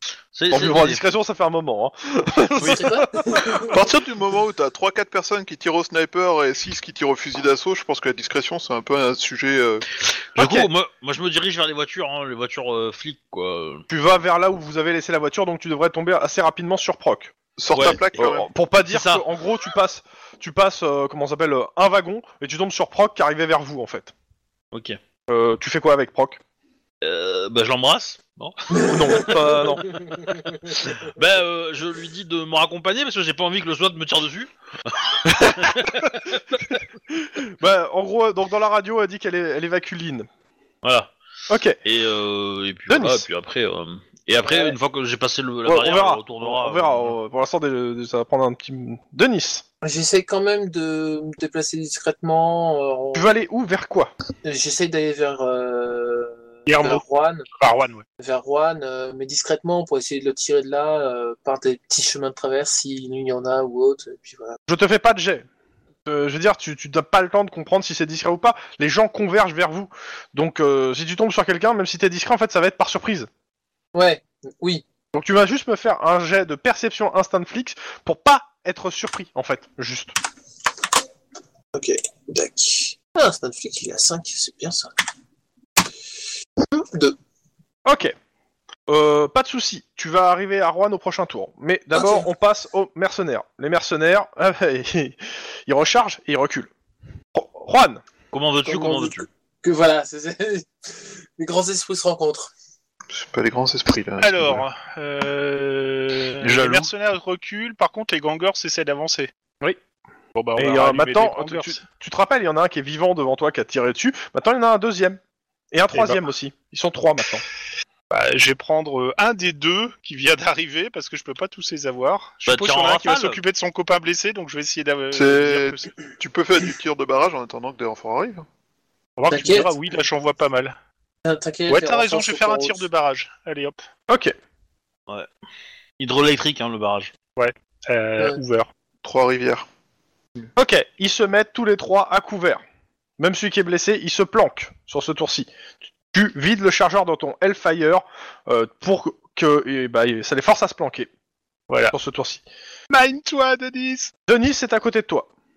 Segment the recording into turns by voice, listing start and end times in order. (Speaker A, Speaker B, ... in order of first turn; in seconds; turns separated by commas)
Speaker A: 0.3-1.1, Speaker B: 0.5-3.6, Speaker C: 2.6-3.8, Speaker D: 3.6-9.8, Speaker A: 10.3-13.8, Speaker B: 10.4-10.7, Speaker B: 13.9-17.3, Speaker D: 17.6-18.5, Speaker A: 17.7-18.2, Speaker B: 18.1-24.1, Speaker A: 18.9-19.2, Speaker A: 24.7-25.0, Speaker B: 25.3-26.4, Speaker A: 27.0-36.6, Speaker C: 28.7-30.2, Speaker B: 28.8-30.0, Speaker B: 35.2-40.3, Speaker A: 40.8-41.1, Speaker B: 41.5-41.8, Speaker A: 41.8-47.1, Speaker B: 42.9-43.2, Speaker C: 44.5-44.8, Speaker B: 45.6-49.6, Speaker C: 49.8-53.3, Speaker B: 53.1-54.1, Speaker C: 54.4-57.5, Speaker E: 56.7-57.0, Speaker E: 57.6-58.0, Speaker C: 58.2-64.6, Speaker B: 64.7-65.5, Speaker B: 66.0-73.3, Speaker C: 73.9-74.8, Speaker B: 75.1-80.1, Speaker C: 81.7-84.9, Speaker C: 86.6-87.2, Speaker B: 87.8-88.1, Speaker B: 88.9-96.7, Speaker C: 91.9-92.2, Speaker B: 97.3-98.0, Speaker A: 98.3-99.3, Speaker C: 98.6-102.5, Speaker D: 103.1-104.6, Speaker E: 104.2-109.3, Speaker B: 106.4-106.9, Speaker E: 110.3-111.8, Speaker B: 110.5-115.2, Speaker B: 115.7-117.4, Speaker E: 115.9-116.2, Speaker E: 118.1-125.9, Speaker A: 122.5-123.4, Speaker D: 125.1-128.4, Speaker E: 129.2-130.7, Speaker C: 129.3-129.7, Speaker C: 131.2-132.8, Speaker E: 131.7-133.8, Speaker B: 134.1-134.3, Speaker A: 136.0-137.1, Speaker E: 137.3-138.7, Speaker D: 139.0-139.7, Speaker B: 140.6-142.6, Speaker B: 143.2-145.5, Speaker B: 146.1-151.1, Speaker B: 151.9-152.4, Speaker E: 152.9-154.1, Speaker B: 154.3-155.3